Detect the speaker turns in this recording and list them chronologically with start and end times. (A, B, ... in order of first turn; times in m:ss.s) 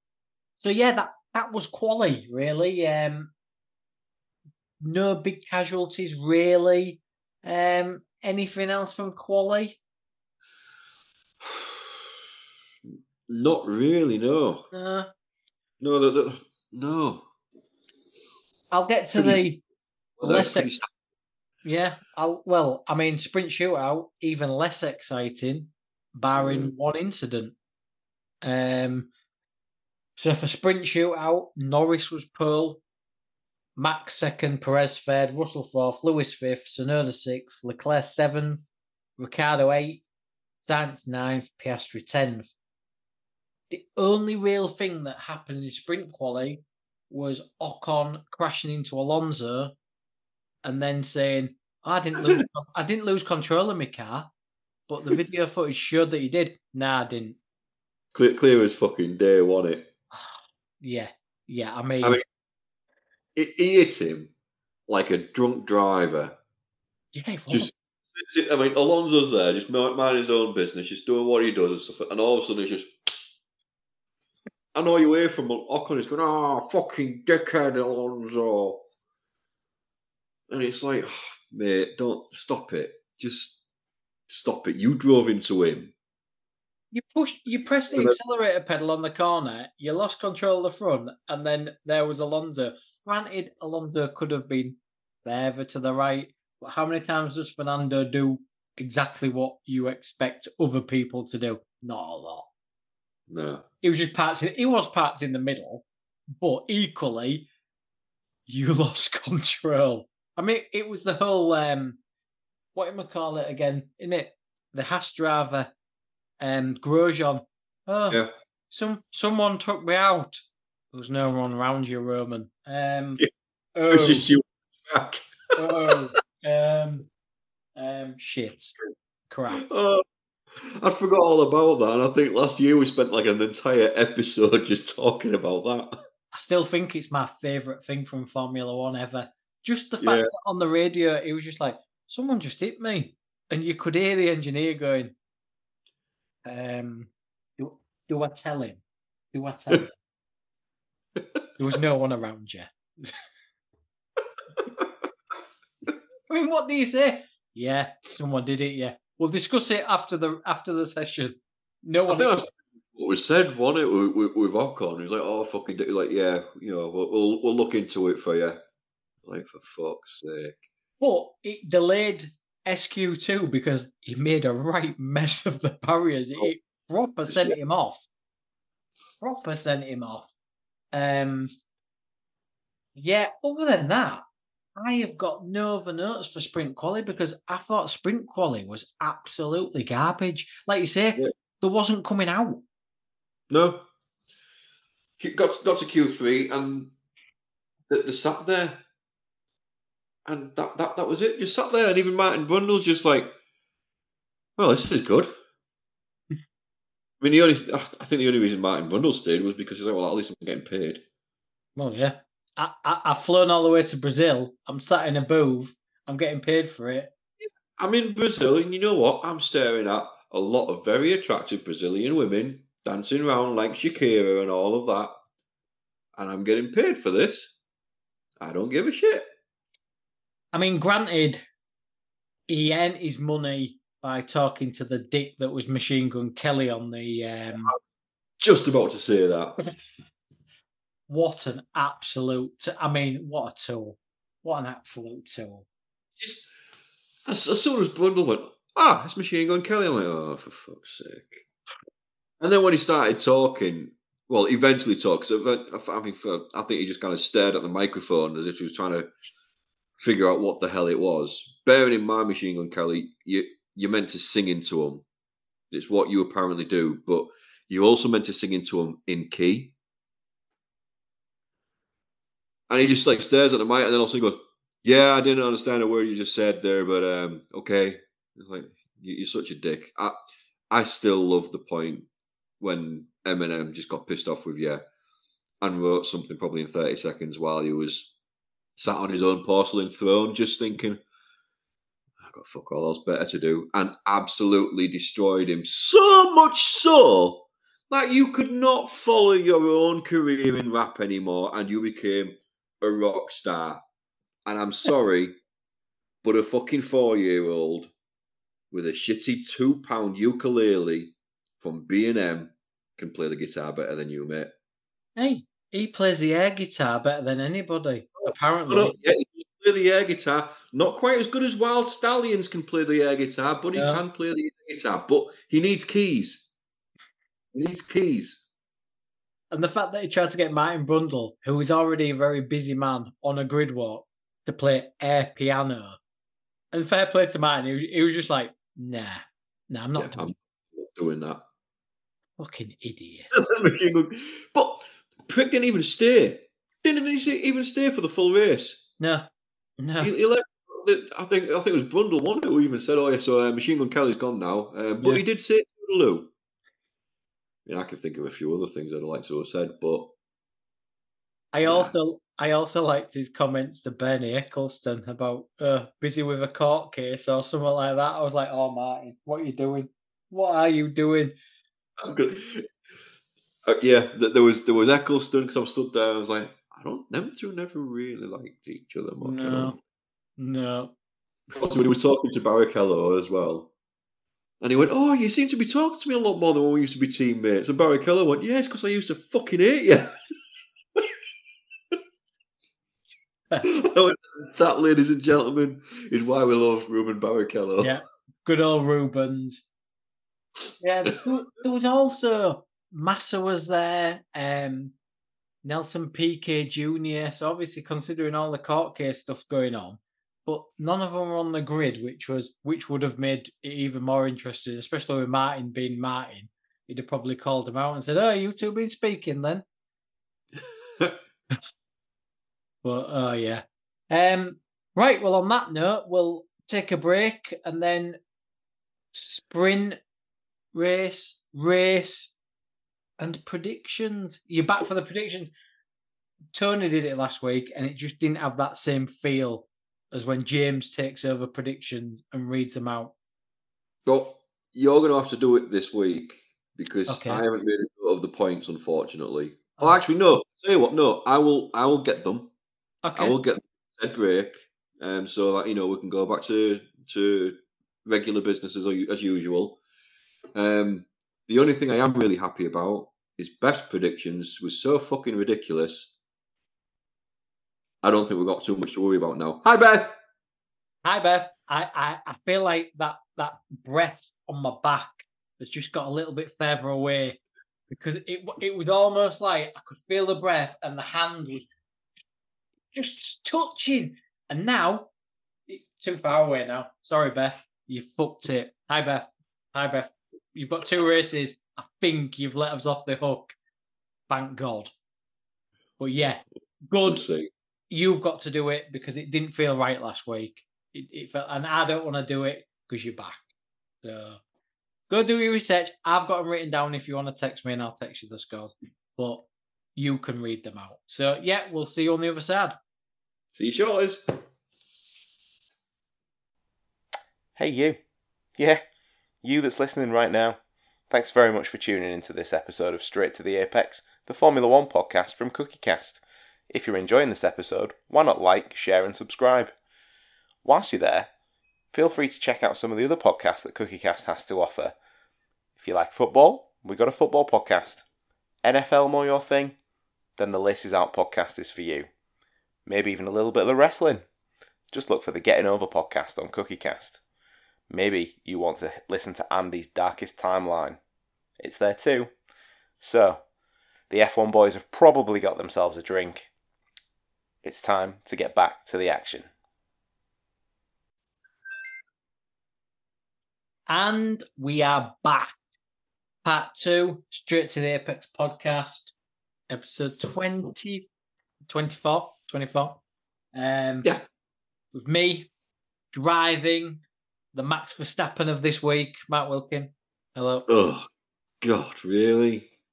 0:00.6-0:03.3 A
0:04.8-0:09.8 A
0:11.4-0:12.1 B
0:13.3-0:14.7 B
0:14.7-0:15.1 A
0:15.8-0:17.2 B
0:18.7-0:19.6 A
0:19.2-0:19.4 B
0:20.2-0:20.9 B
0:20.2-0:20.9 A
0:21.6-0:27.6 A
0:26.3-0:26.7 B
0:28.4-0:29.1 A
0:30.2-0:32.8 A
0:33.8-0:38.7 A
0:39.2-0:40.0 A
0:40.6-0:42.5 A
0:43.7-0:49.7 A
0:50.6-0:54.3 A
0:54.9-0:57.4 A
0:58.1-0:59.9 B
1:00.1-1:02.2 A
1:03.4-1:04.3 B
1:04.9-1:06.4 B
1:07.1-1:07.7 A
1:07.5-1:12.9 B
1:14.7-1:18.8 B
1:20.5-1:23.6 B
1:24.3-1:25.9 B
1:26.9-1:42.5 A
1:27.9-1:28.2 B
1:43.3-1:43.6 B
1:43.8-1:45.8 A
1:46.4-1:47.5 A
1:48.5-1:52.0 A
1:52.8-1:55.7 A
1:56.4-2:00.4 A
2:00.9-2:03.2 A
2:03.8-2:04.3 A
2:03.9-2:06.0 B
2:05.6-2:07.1 A
2:07.8-2:08.8 A
2:09.3-2:09.6 A
2:09.6-2:10.0 B
2:10.6-2:16.0 B
2:16.3-2:25.2 A
2:20.0-2:20.3 B
2:26.5-2:28.8 A
2:29.3-2:29.9 A
2:31.6-2:33.2 A
2:36.3-2:42.4 A
2:42.1-2:48.6 B
2:49.2-2:50.6 B
2:51.0-2:58.1 A
2:57.3-2:57.6 B
2:59.2-3:00.3 A
3:00.9-3:01.5 A
3:03.0-3:04.2 A
3:04.8-3:12.6 A
3:13.5-3:13.9 B
3:15.2-3:16.9 B
3:17.9-3:18.8 B
3:20.3-3:23.4 B
3:24.6-3:25.3 B
3:27.2-3:31.0 B
3:31.8-3:37.1 A
3:37.4-3:45.1 B
3:46.2-3:47.6 B
3:48.4-3:49.3 B
3:50.5-3:51.4 A
3:52.5-3:57.7 A
3:58.4-3:59.6 B
4:01.1-4:05.7 A
4:06.2-4:06.5 B
4:07.3-4:11.4 B
4:12.4-4:19.1 B
4:20.0-4:25.0 B
4:25.7-4:29.7 B
4:32.7-4:40.2 B
4:40.7-4:42.1 B
4:42.6-4:44.8 B
4:45.6-4:48.1 B
4:48.8-4:51.0 B
4:52.2-5:03.8 B
5:04.5-5:05.4 B
5:06.2-5:07.9 B
5:08.7-5:14.5 B
5:15.2-5:19.0 A
5:18.2-5:26.4 B
5:23.7-5:24.0 A
5:27.5-5:28.4 B
5:29.5-5:36.0 A
5:36.7-5:40.3 A
5:40.0-5:41.4 B
5:42.4-5:43.3 A
5:43.3-5:48.8 B
5:49.0-5:49.3 A
5:49.8-5:50.1 A
5:50.0-5:56.3 B
5:57.7-6:00.1 B
6:01.5-6:11.4 A
6:01.6-6:01.9 B
6:12.0-6:12.7 B
6:13.7-6:19.8 B
6:19.2-6:19.8 A
6:20.4-6:20.9 A
6:21.5-6:23.7 B
6:24.6-6:30.2 B
6:33.7-6:37.9 B
6:37.8-6:39.6 A
6:40.8-6:45.0 A
6:45.6-6:59.6 A
7:02.8-7:08.2 A
7:09.1-7:10.0 A
7:10.7-7:12.3 A
7:13.2-7:15.5 A
7:16.5-7:23.1 A
7:24.1-7:32.5 B
7:27.1-7:27.4 A
7:33.0-7:33.4 A
7:33.2-7:39.8 B
7:40.6-7:46.2 B
7:48.0-7:50.2 B
7:51.0-7:57.4 A
7:57.9-8:01.7 A
8:02.9-8:05.1 A
8:05.7-8:13.6 A
8:14.3-8:14.9 A
8:16.0-8:17.2 A
8:17.1-8:17.5 B
8:17.9-8:23.4 A
8:24.0-8:24.4 A
8:25.1-8:32.8 A
8:33.5-8:34.2 B
8:37.6-8:38.0 C
8:38.6-8:38.8 C
8:39.4-8:49.7 C
8:50.6-8:51.3 C
8:51.9-8:55.0 C
8:55.8-8:58.1 C
8:58.6-8:59.8 C
9:00.4-9:02.1 C
9:02.9-9:04.3 C
9:04.9-9:07.2 C
9:07.9-9:11.0 C
9:11.6-9:12.3 C
9:13.0-9:13.4 C
9:14.1-9:16.5 C
9:17.6-9:19.5 C
9:23.9-9:25.6 A
9:26.4-9:29.1 A
9:29.7-9:31.1 A
9:31.7-9:33.0 A
9:33.5-9:34.1 A
9:34.9-9:35.5 A
9:36.1-9:37.0 A
9:37.5-9:40.7 A
9:40.7-9:41.1 B
9:41.6-9:42.7 B